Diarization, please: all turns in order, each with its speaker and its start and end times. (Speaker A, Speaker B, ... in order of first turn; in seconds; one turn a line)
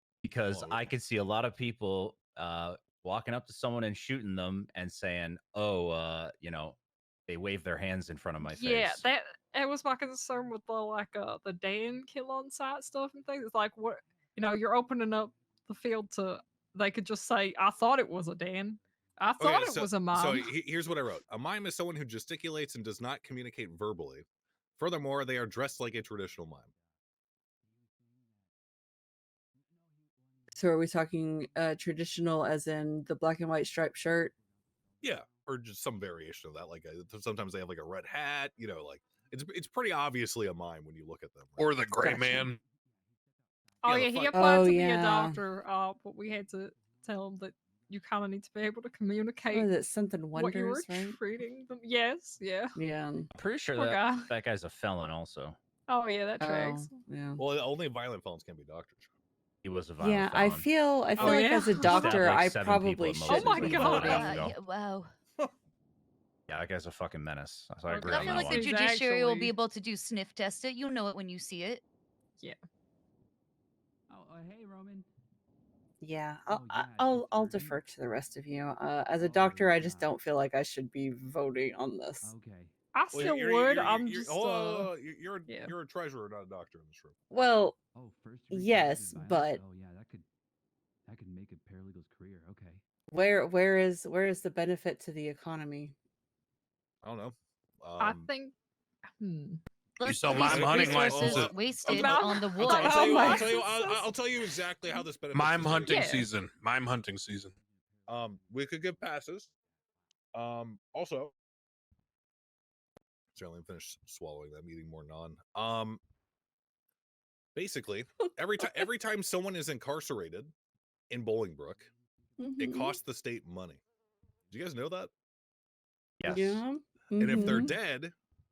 Speaker A: 0.2-9.1
Speaker B: 0.5-0.9
Speaker C: 8.4-20.5
Speaker B: 19.4-24.2
Speaker B: 24.8-26.7
Speaker D: 30.5-34.3
Speaker B: 35.0-41.9
Speaker E: 41.6-42.6
Speaker D: 41.9-42.5
Speaker C: 43.8-49.7
Speaker B: 43.9-44.5
Speaker D: 44.3-45.4
Speaker D: 49.5-51.2
Speaker C: 50.3-52.8
Speaker D: 52.8-53.3
Speaker A: 53.3-55.6
Speaker C: 53.8-54.3
Speaker C: 55.9-57.0
Speaker D: 56.4-57.5
Speaker B: 57.4-59.1
Speaker A: 59.6-60.7
Speaker D: 60.0-64.3
Speaker C: 61.2-62.2
Speaker A: 61.8-64.6
Speaker C: 63.2-64.4
Speaker F: 64.0-65.1
Speaker A: 66.5-68.7
Speaker C: 67.9-69.5
Speaker F: 68.0-71.8
Speaker G: 74.1-75.1
Speaker D: 76.0-82.3
Speaker G: 76.5-77.8
Speaker G: 79.2-80.1
Speaker G: 82.2-82.7
Speaker C: 82.9-84.9
Speaker B: 83.1-87.1
Speaker C: 85.5-85.7
Speaker D: 87.3-87.8
Speaker G: 88.0-90.3
Speaker D: 88.5-89.6
Speaker G: 91.1-92.8
Speaker D: 93.1-96.0
Speaker B: 97.0-98.3
Speaker C: 98.0-98.5
Speaker C: 99.2-99.6
Speaker F: 100.0-103.4
Speaker E: 100.0-101.5
Speaker B: 100.3-106.2
Speaker C: 101.9-104.1
Speaker D: 102.7-103.6
Speaker E: 105.3-107.5
Speaker C: 105.9-106.3
Speaker B: 108.1-109.5
Speaker B: 110.3-111.3
Speaker B: 113.3-116.0
Speaker B: 117.5-120.5
Speaker B: 121.1-121.9
Speaker D: 122.4-123.0
Speaker B: 122.6-123.8
Speaker B: 124.5-125.1
Speaker A: 126.2-126.6
Speaker D: 126.3-127.7
Speaker B: 127.2-128.1